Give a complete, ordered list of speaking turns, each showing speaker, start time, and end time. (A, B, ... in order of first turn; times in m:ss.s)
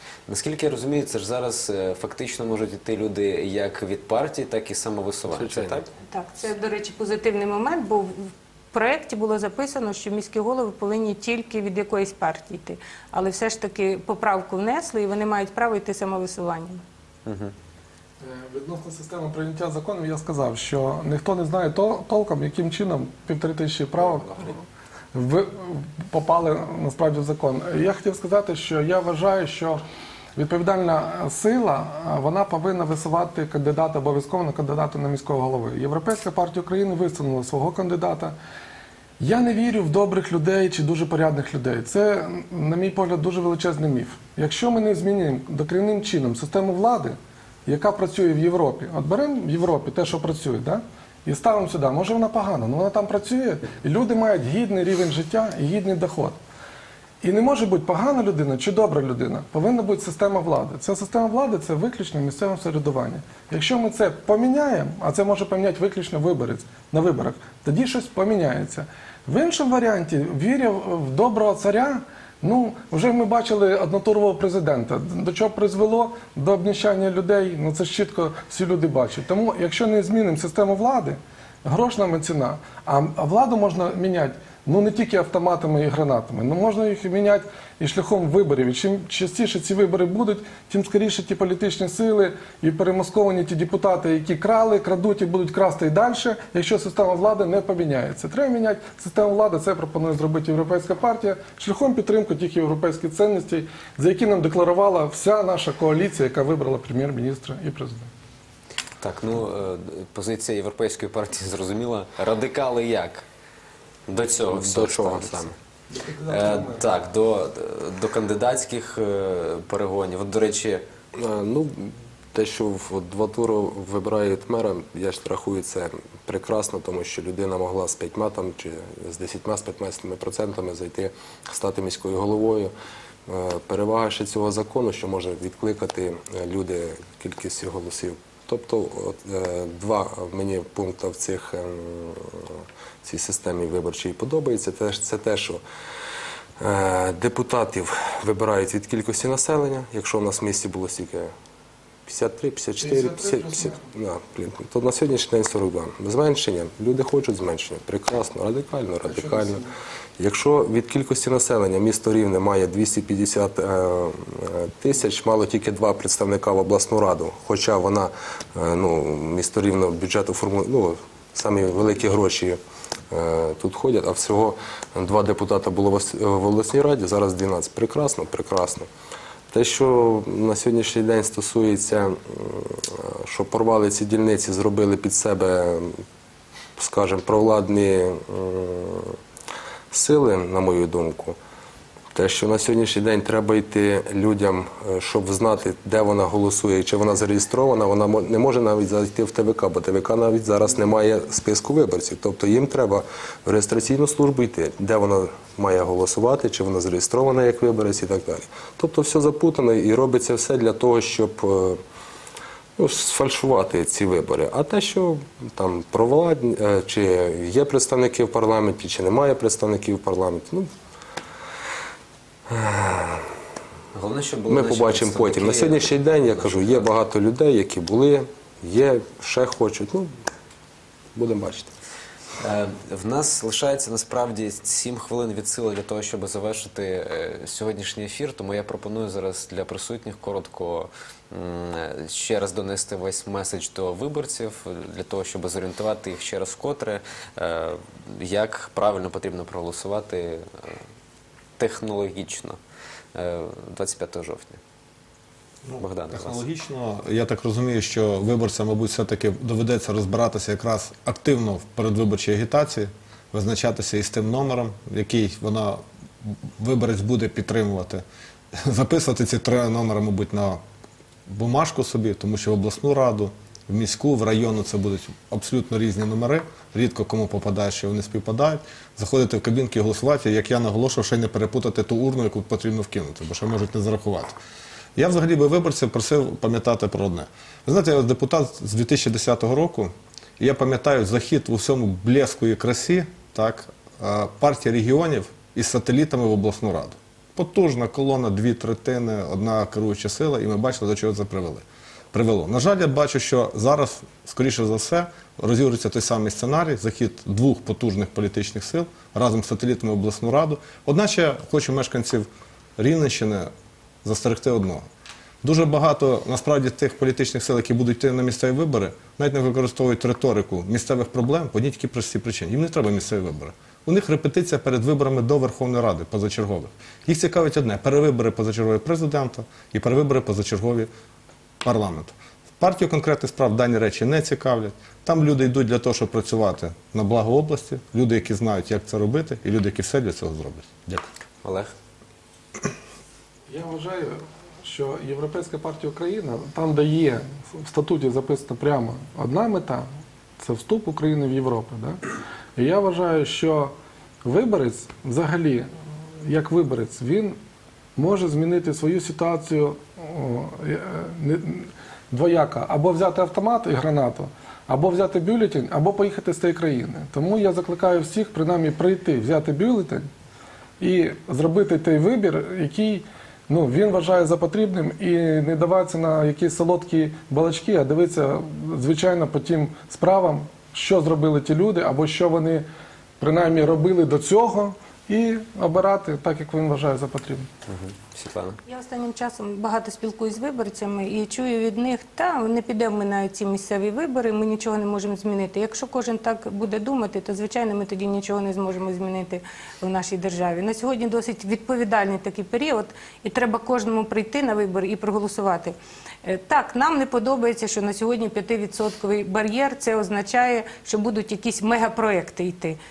0:00.3-0:05.9 A
0:05.3-0:05.8 B
0:06.0-0:16.8 C
0:17.2-0:17.5 A
0:18.2-0:29.8 D
0:30.4-0:38.4 D
0:39.2-0:56.4 D
0:57.2-1:48.1 D
1:49.0-1:53.2 A
1:54.1-1:55.5 A
1:54.5-1:55.5 B
1:55.9-1:56.6 D
1:56.2-2:00.8 A
2:01.1-2:12.7 B
2:13.3-2:25.6 B
2:26.6-2:31.3 B
2:32.1-2:39.7 B
2:33.1-2:33.8 D
2:39.2-2:39.7 D
2:40.2-2:52.6 B
2:53.1-2:58.9 B
2:59.5-3:06.0 B
3:06.8-3:09.2 B
3:09.9-3:11.4 B
3:12.1-3:31.8 B
3:32.8-3:40.7 B
3:42.5-3:43.3 B
3:43.9-3:46.9 A
3:44.5-3:50.1 B
3:51.1-3:51.7 B
3:52.4-4:10.8 A
4:11.6-4:12.6 A
4:13.1-4:14.6 A
4:15.6-4:28.0 E
4:15.8-4:16.4 A
4:28.6-4:30.6 E
4:31.3-4:44.4 E
4:45.0-5:13.5 E
5:14.0-5:14.8 E
5:15.4-5:30.9 E
5:31.6-5:41.0 E
5:41.4-5:41.7 A
5:43.5-5:52.0 D
5:52.6-5:55.7 D
5:56.2-5:57.4 D
5:58.0-6:10.1 D
6:10.8-6:22.6 D
6:23.2-6:27.5 D
6:27.7-6:28.6 A
6:28.7-6:52.8 C